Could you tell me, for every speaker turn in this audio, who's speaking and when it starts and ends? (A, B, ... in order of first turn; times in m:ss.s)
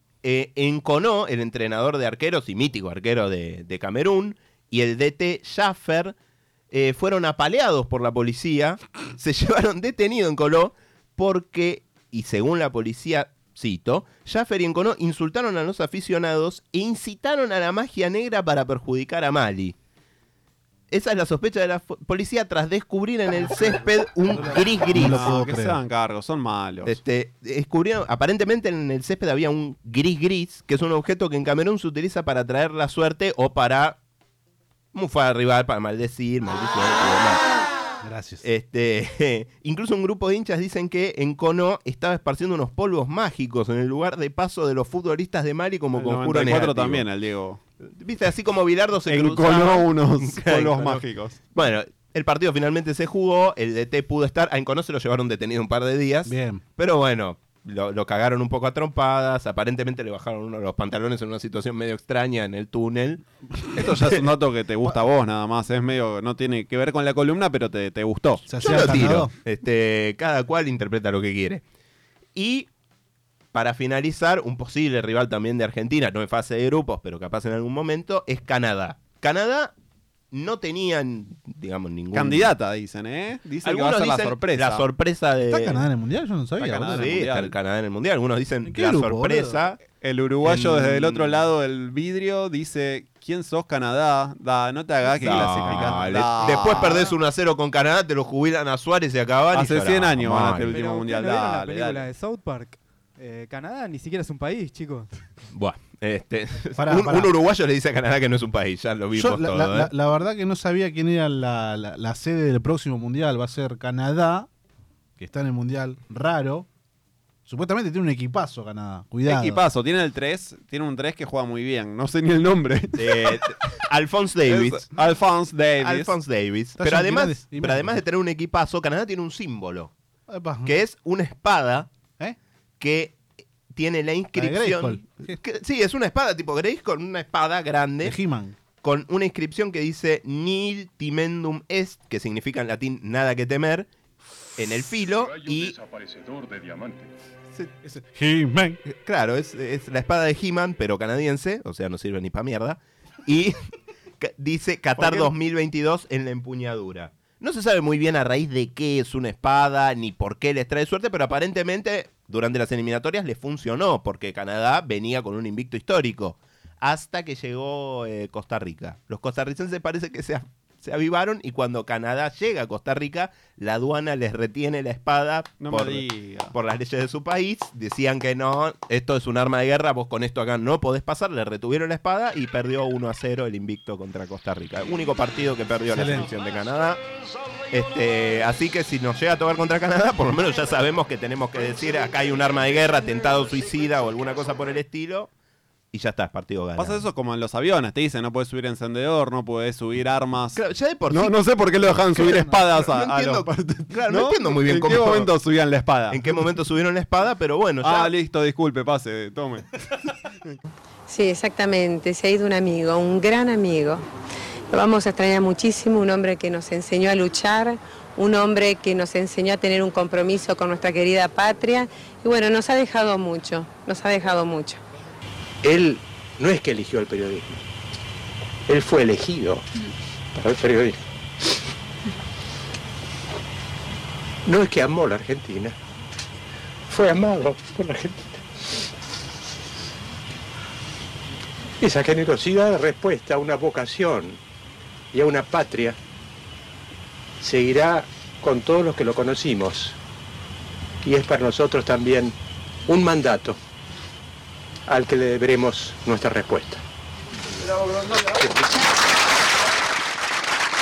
0:00.2-0:06.2 A
0:06.7-0:19.8 A
0:20.9-0:25.3 A
0:24.4-0:27.0 B
0:24.9-0:25.8 C
0:26.8-0:34.0 A
0:34.9-0:37.6 A
0:38.0-0:38.4 C
0:38.4-0:47.0 A
0:46.0-0:47.6 B
0:47.8-1:03.2 A
0:49.1-0:51.4 B
0:56.3-0:56.6 C
1:03.8-1:09.0 B
1:08.5-1:09.3 C
1:08.6-1:11.6 A
1:12.4-1:12.7 A
1:13.5-1:19.7 A
1:20.3-1:22.5 A
1:22.1-1:24.9 B
1:23.6-1:25.8 A
1:25.5-1:27.2 C
1:26.6-1:27.6 B
1:26.8-1:29.8 A
1:28.6-1:29.6 C
1:30.0-1:37.1 B
1:30.4-1:31.4 A
1:35.2-1:40.8 A
1:35.6-1:35.9 C
1:39.5-1:42.1 B
1:40.6-1:45.1 D
1:45.5-1:49.9 A
1:46.8-1:47.3 C
1:49.2-1:54.5 C
1:55.2-1:56.7 C
1:57.5-1:59.6 C
1:59.3-2:03.5 B
2:03.0-2:04.9 A
2:04.5-2:06.1 B
2:05.8-2:09.9 A
2:06.8-2:08.0 C
2:10.3-2:10.7 C
2:10.7-2:11.9 A
2:12.8-2:13.2 A
2:13.7-2:18.2 A
2:14.4-2:15.4 C
2:18.0-2:18.6 C
2:18.8-2:23.9 A
2:24.6-2:25.8 A
2:25.1-2:27.1 E
2:27.8-2:28.8 C
2:28.8-2:33.6 A
2:34.2-3:07.0 A
2:35.0-2:35.3 B
2:55.6-2:56.6 B
3:05.9-3:06.3 C
3:07.7-3:15.3 A
3:15.9-3:17.1 A
3:16.8-3:20.6 B
3:20.6-3:21.4 A
3:21.1-3:26.2 B
3:22.2-3:25.3 A
3:26.1-3:28.1 A
3:27.8-3:29.8 B
3:31.1-3:34.0 F
3:34.7-3:44.8 F
3:45.6-3:47.6 G
3:48.7-3:49.6 G
3:50.4-3:51.0 G
3:54.4-3:55.8 G
3:56.9-3:58.4 G
4:01.8-4:04.4 G
4:05.1-4:06.0 G
4:07.4-4:10.0 G
4:11.0-4:12.4 G
4:12.9-4:13.6 G
4:14.9-4:16.8 G